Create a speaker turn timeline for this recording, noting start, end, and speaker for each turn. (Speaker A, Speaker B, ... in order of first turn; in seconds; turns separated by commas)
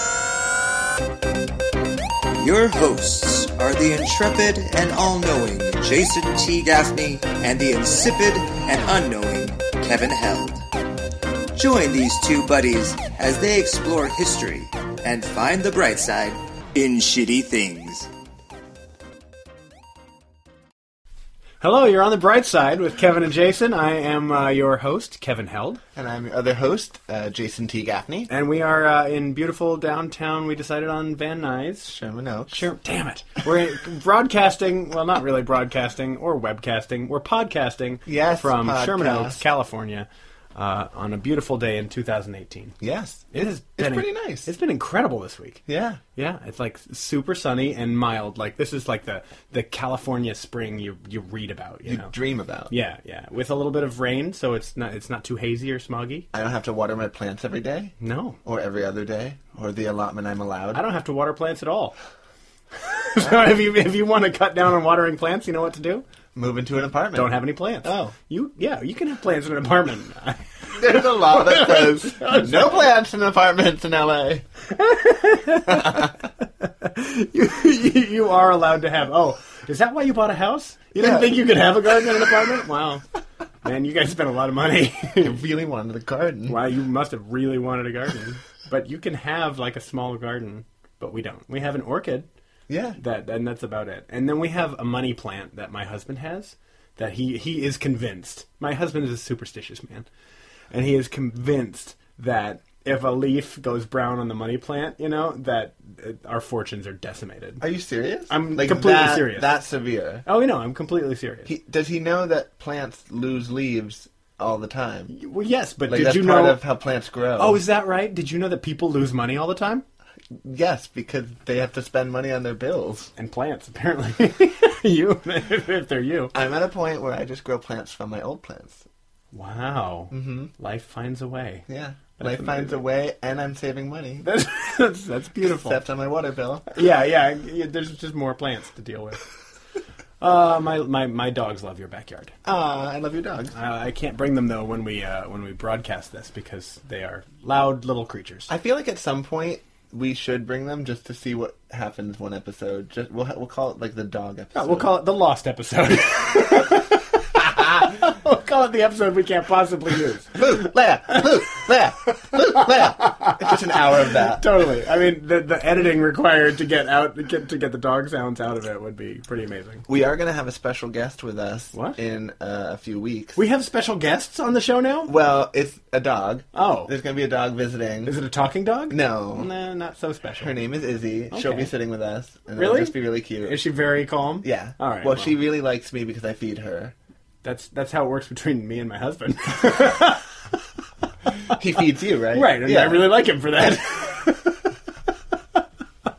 Speaker A: 2.4-10.6, Speaker A: 11.5-18.1, Speaker B: 21.6-25.8, Speaker C: 25.9-28.3, Speaker B: 28.3-31.9, Speaker C: 31.8-32.7, Speaker B: 32.5-42.8, Speaker C: 38.0-39.4, Speaker C: 42.8-44.5, Speaker B: 43.3-45.6, Speaker C: 45.7-46.0, Speaker B: 46.1-52.1, Speaker C: 51.8-52.7, Speaker B: 52.7-56.2, Speaker C: 56.3-60.8, Speaker B: 58.0-58.4, Speaker B: 60.7-62.0, Speaker B: 62.9-66.0, Speaker C: 66.3-68.1, Speaker B: 67.1-72.9, Speaker C: 70.7-74.5, Speaker B: 74.8-83.0, Speaker C: 75.7-76.1, Speaker C: 81.0-81.4, Speaker B: 83.6-85.3, Speaker C: 85.2-86.6, Speaker B: 86.5-92.3, Speaker C: 92.7-93.0, Speaker B: 93.0-100.1, Speaker B: 100.7-107.6, Speaker C: 107.6-110.2, Speaker B: 108.3-109.5, Speaker B: 110.2-111.5, Speaker C: 111.5-115.1, Speaker B: 115.1-116.6, Speaker C: 115.9-117.6, Speaker B: 117.4-119.8, Speaker C: 120.4-123.1, Speaker B: 123.2-126.3, Speaker C: 126.3-128.8, Speaker B: 129.3-131.7, Speaker C: 130.1-130.5, Speaker C: 131.7-134.3, Speaker B: 132.2-132.8, Speaker B: 134.2-135.8, Speaker C: 135.4-136.7, Speaker B: 136.7-139.2, Speaker B: 140.2-142.3, Speaker C: 142.4-143.5, Speaker B: 143.5-148.5, Speaker C: 148.5-154.9, Speaker B: 154.5-160.4, Speaker C: 160.3-164.4, Speaker B: 163.1-169.8, Speaker C: 169.9-173.4, Speaker B: 173.3-175.1, Speaker C: 175.1-178.1, Speaker B: 176.5-176.9, Speaker B: 178.1-180.6, Speaker C: 178.9-179.5, Speaker C: 180.4-183.6, Speaker B: 181.3-181.7, Speaker B: 182.6-185.3, Speaker C: 184.4-186.9, Speaker B: 187.4-190.3, Speaker C: 191.5-193.1, Speaker B: 192.3-194.6